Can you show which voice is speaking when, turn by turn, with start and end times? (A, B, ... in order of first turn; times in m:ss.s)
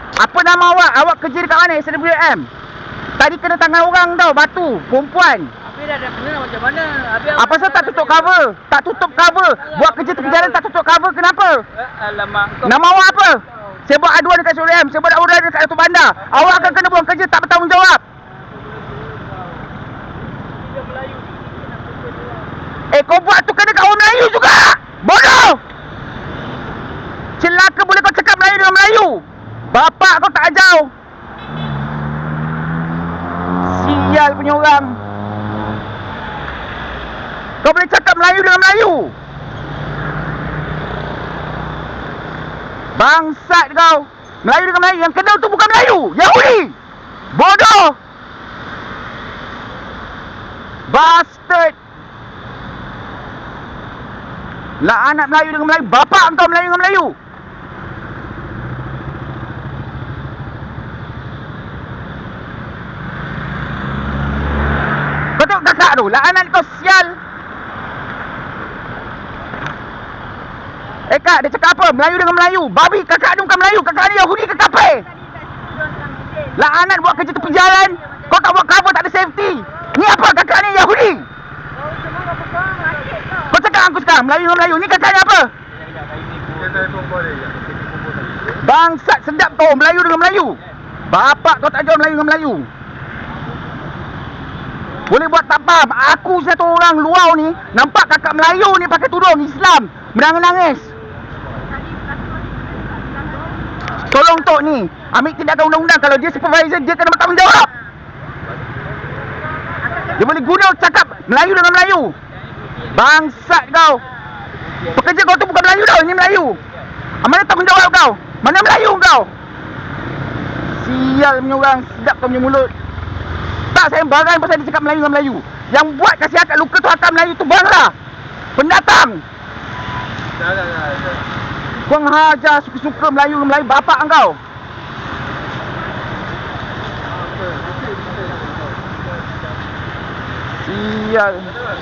0:00.2-0:02.5 A
0:03.2-0:05.5 A
0:05.7-0:08.2 B
0:07.3-0:11.6 A
0:10.0-0:10.4 B
0:11.8-0:12.6 B
0:12.6-0:18.0 A
0:20.7-0:22.2 B
0:22.9-0:25.6 A
0:27.4-0:30.9 A
0:33.6-0:35.0 A
0:37.6-0:39.1 A
0:42.9-0:46.7 A
0:47.3-0:48.0 A
0:50.9-0:51.8 A
0:54.8-0:57.1 A
1:05.4-1:07.2 A
1:11.1-1:15.0 A
1:14.8-1:18.4 C
1:16.6-1:21.3 A
1:22.4-1:23.6 C
1:23.5-1:25.5 A
1:26.2-1:27.2 B
1:28.5-1:32.7 A
1:35.0-1:40.9 A
1:41.6-1:43.6 C
1:44.0-1:47.7 A
1:49.8-1:50.2 C
1:50.1-1:52.2 A
1:52.9-1:54.0 A
1:54.9-1:56.6 A
1:57.2-1:59.3 A
2:00.7-2:02.7 A
2:03.7-2:07.9 A
2:08.6-2:09.2 A
2:11.8-2:14.4 A
2:20.6-2:21.6 A